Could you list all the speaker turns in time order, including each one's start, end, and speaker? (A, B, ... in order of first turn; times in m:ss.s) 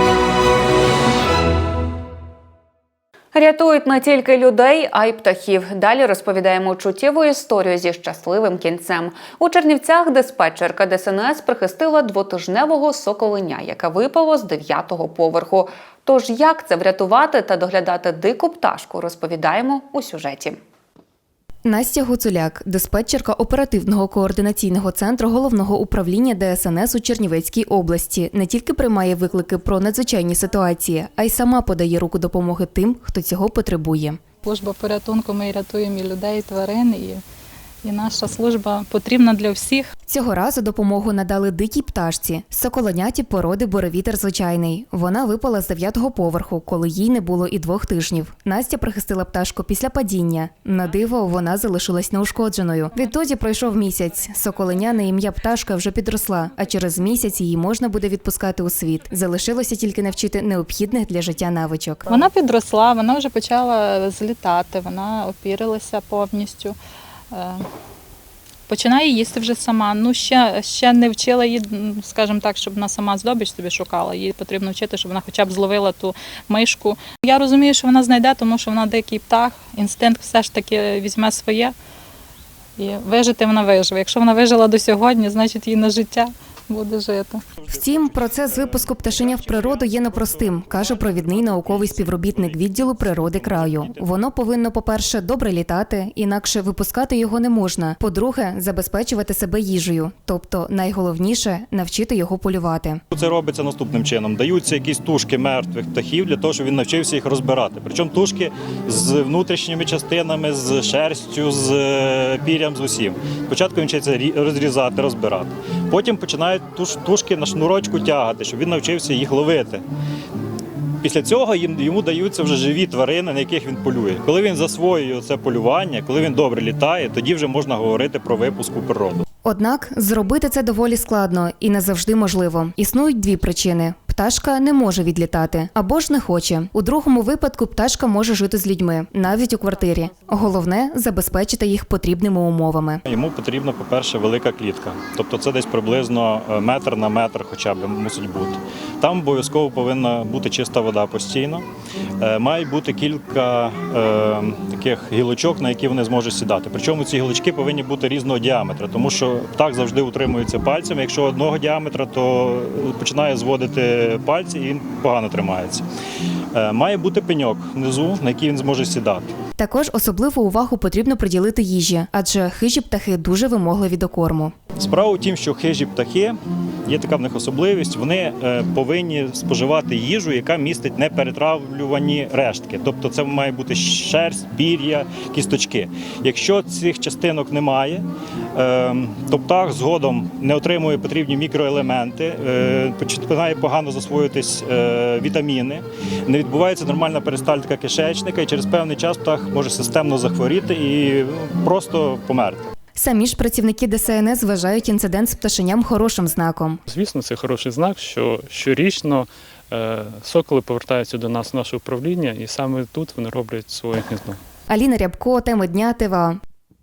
0:03.3-0:20.6 A
0:21.6-0:34.2 B
0:34.4-0:37.2 C
0:37.8-0:39.9 C
0:40.1-1:02.0 B
1:02.1-1:06.7 C
1:07.3-1:07.6 C
1:08.7-1:21.7 C
1:22.8-1:27.4 C
1:27.6-1:34.1 D
1:27.7-1:43.0 B
1:43.1-1:59.8 D
2:01.0-2:09.2 D
2:09.4-2:23.0 B
2:23.0-2:31.6 D
2:32.2-2:45.8 D
2:46.5-2:49.3 D
2:49.6-2:54.5 B
2:54.8-3:22.7 D
3:23.0-3:26.8 B
3:26.9-3:34.4 E
3:34.7-3:36.4 B